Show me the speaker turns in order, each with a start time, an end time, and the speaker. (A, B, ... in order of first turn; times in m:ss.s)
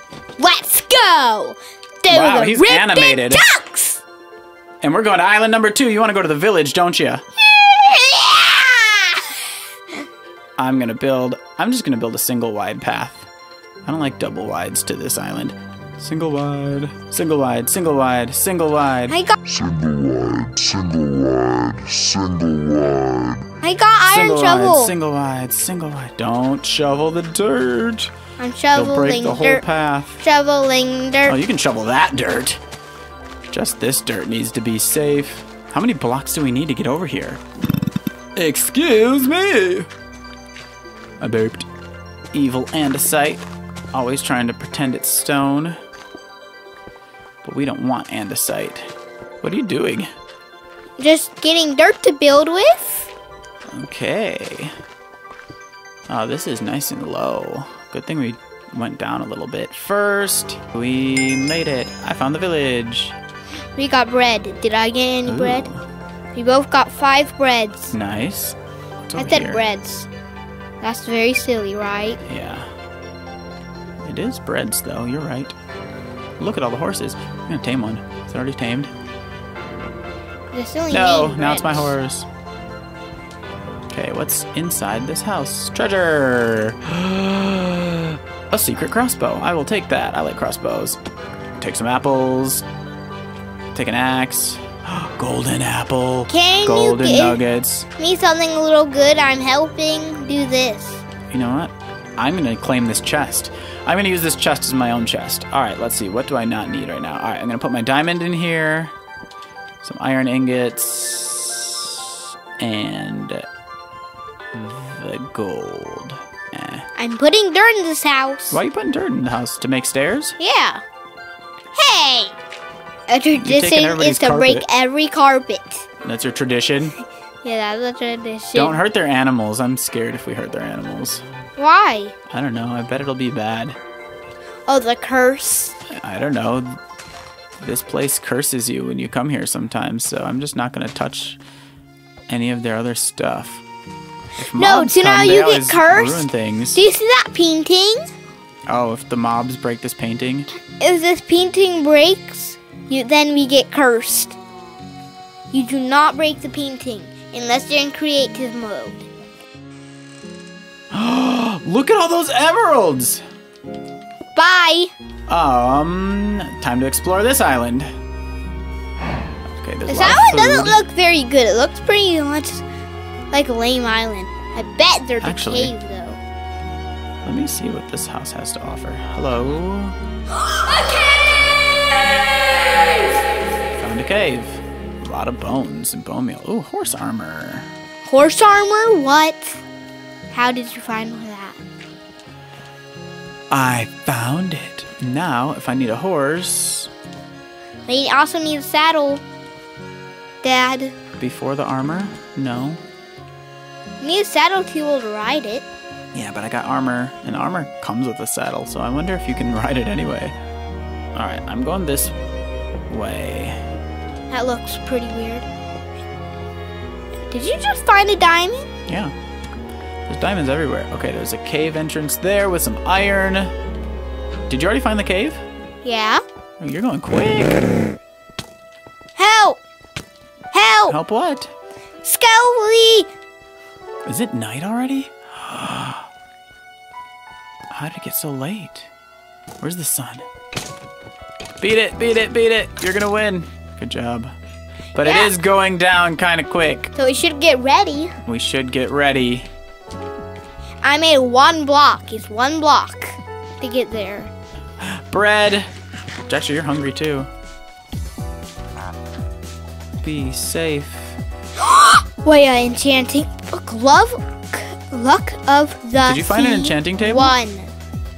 0:00.4-0:04.0 A
0:02.1-0:03.4 B
0:04.8-0:07.2 B
0:07.4-0:09.4 A
0:10.6-0:13.3 B
0:13.8-0:19.2 B
0:19.1-0:19.4 A
0:19.5-0:23.5 C
0:23.6-0:24.9 A
0:24.1-0:28.1 B
0:28.4-0:29.6 A
0:28.7-0:30.2 B
0:30.2-0:31.4 A
0:31.2-0:32.6 B
0:33.5-0:37.4 B
0:38.4-0:39.9 B
0:41.2-0:41.7 B
0:42.3-0:45.8 B
0:47.4-0:48.9 B
0:49.4-0:50.1 B
0:51.0-0:53.1 A
0:53.7-0:54.7 B
0:56.1-1:03.2 B
1:03.8-1:05.7 A
1:05.3-1:05.8 B
1:06.4-1:07.9 A
1:07.9-1:08.6 B
1:09.1-1:09.7 B
1:09.2-1:10.1 A
1:10.8-1:12.2 A
1:12.2-1:12.7 B
1:14.0-1:15.6 B
1:16.4-1:18.9 B
1:20.5-1:21.9 A
1:20.9-1:22.3 B
1:23.9-1:31.0 B
1:31.6-1:32.6 B
1:33.7-1:37.9 B
1:36.3-1:37.4 A
1:38.0-1:41.0 A
1:41.3-1:48.9 B
1:49.8-1:53.4 B
1:54.5-1:56.9 B
1:57.0-1:58.6 A
1:58.5-2:00.4 B
2:00.4-2:00.8 A
2:01.8-2:02.3 A
2:03.1-2:05.9 A
2:03.4-2:04.7 B
2:06.0-2:07.0 B
2:07.4-2:08.8 A
2:08.5-2:11.2 B
2:11.6-2:12.1 A
2:12.3-2:13.8 B
2:14.7-2:15.8 A
2:15.9-2:16.8 B
2:17.6-2:21.4 B
2:22.3-2:23.6 B
2:24.4-2:26.8 B
2:24.5-2:28.1 A
2:28.7-2:30.5 B
2:30.8-2:34.4 A
2:35.5-2:39.0 A
2:40.9-2:43.2 B
2:44.4-2:44.9 A
2:45.3-2:47.9 B
2:49.6-2:50.8 B
2:49.9-2:52.6 A
2:53.3-2:56.2 A
2:55.2-2:55.7 B
2:57.2-3:00.0 B
3:00.4-3:02.0 A
3:03.7-3:07.7 B
3:08.0-3:09.6 A
3:10.3-3:11.6 A
3:13.5-3:16.9 B
3:17.9-3:19.2 A
3:20.4-3:21.0 A
3:21.2-3:22.8 B
3:24.0-3:25.7 A
3:26.1-3:30.4 B
3:31.2-3:32.1 B
3:32.9-3:33.6 B
3:34.3-3:35.5 A
3:37.3-3:38.7 A
3:38.9-3:39.1 B
3:40.1-3:43.5 B
3:44.5-3:45.4 B
3:45.8-3:46.2 A
3:46.6-3:47.9 B
3:49.2-3:49.6 A
3:50.5-3:51.0 A
3:50.9-3:51.5 B
3:52.0-3:53.1 A
3:54.1-3:56.1 B
3:57.7-3:58.9 B
3:59.6-4:00.3 B
4:01.6-4:04.3 B
4:05.0-4:06.9 B
4:05.0-4:05.3 A
4:07.0-4:08.1 A
4:08.3-4:09.5 B
4:10.8-4:14.3 A
4:14.8-4:15.7 B
4:16.3-4:17.3 B
4:20.0-4:21.2 B
4:21.6-4:27.7 A
4:26.0-4:27.4 B